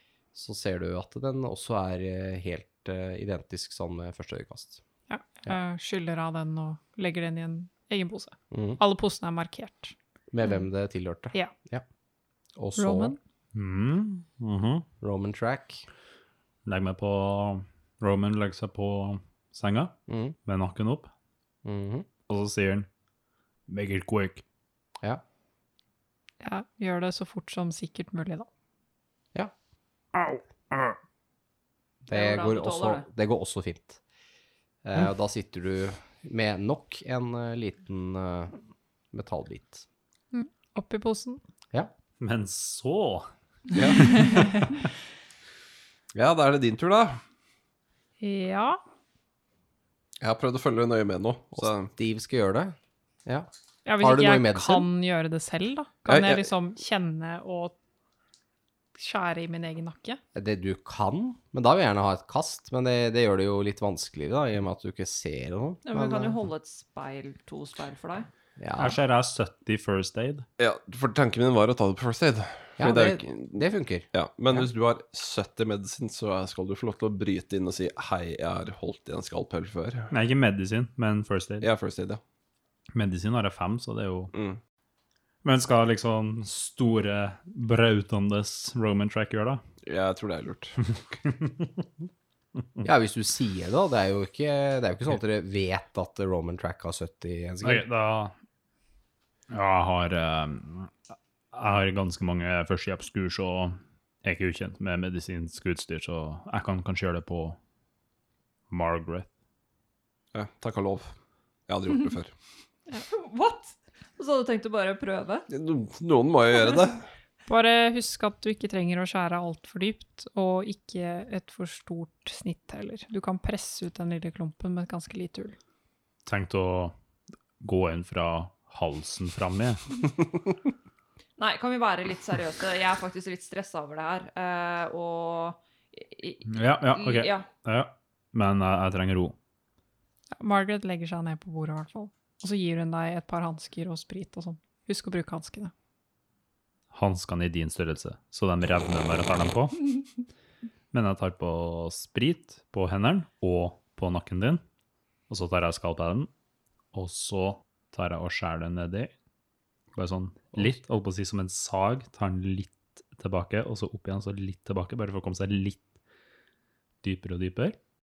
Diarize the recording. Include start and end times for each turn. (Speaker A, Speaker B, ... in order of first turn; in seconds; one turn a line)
Speaker A: 0.3-4.8
Speaker B: 5.1-9.9
Speaker A: 8.5-8.8
Speaker A: 10.3-11.8
Speaker A: 12.6-13.2
Speaker B: 12.8-13.2
Speaker C: 13.5-14.8
Speaker A: 15.0-15.8
Speaker C: 16.6-21.1
Speaker A: 20.1-20.4
Speaker A: 21.6-22.1
Speaker C: 22.3-22.9
Speaker C: 23.7-24.4
Speaker B: 26.4-28.5
Speaker A: 32.0-34.0
Speaker D: 32.1-33.1
Speaker A: 34.8-38.5
Speaker A: 39.1-39.8
Speaker B: 40.3-41.4
Speaker C: 42.2-43.3
Speaker E: 43.7-44.4
Speaker C: 43.9-44.5
Speaker E: 46.1-47.2
Speaker B: 48.2-48.8
Speaker E: 50.2-51.9
Speaker A: 51.5-52.7
Speaker B: 53.8-57.7
Speaker A: 54.0-54.9
Speaker E: 56.1-56.5
Speaker B: 59.0-60.2
Speaker A: 60.3-66.4
Speaker D: 65.8-68.3
Speaker A: 68.6-69.0
Speaker C: 68.8-70.5
Speaker E: 70.6-80.1
Speaker A: 72.8-74.7
Speaker C: 80.1-81.7
Speaker E: 81.6-82.2
Speaker C: 82.9-84.3
Speaker E: 84.3-84.6
Speaker C: 85.4-89.6
Speaker E: 89.8-90.8
Speaker C: 91.0-91.8
Speaker A: 92.8-97.8
Speaker C: 97.6-98.3
Speaker C: 99.5-107.6
Speaker C: 108.7-109.3
Speaker E: 110.3-111.1
Speaker E: 111.7-112.3
Speaker D: 113.1-115.5
Speaker E: 115.5-117.0
Speaker B: 117.5-125.5
Speaker C: 126.2-126.9
Speaker C: 127.6-129.8
Speaker D: 131.4-137.5
Speaker C: 136.5-139.3
Speaker B: 140.4-145.7
Speaker C: 146.9-150.0
Speaker C: 150.9-154.6
Speaker C: 155.3-156.3
Speaker C: 156.9-159.1
Speaker C: 159.9-165.8
Speaker C: 167.0-167.8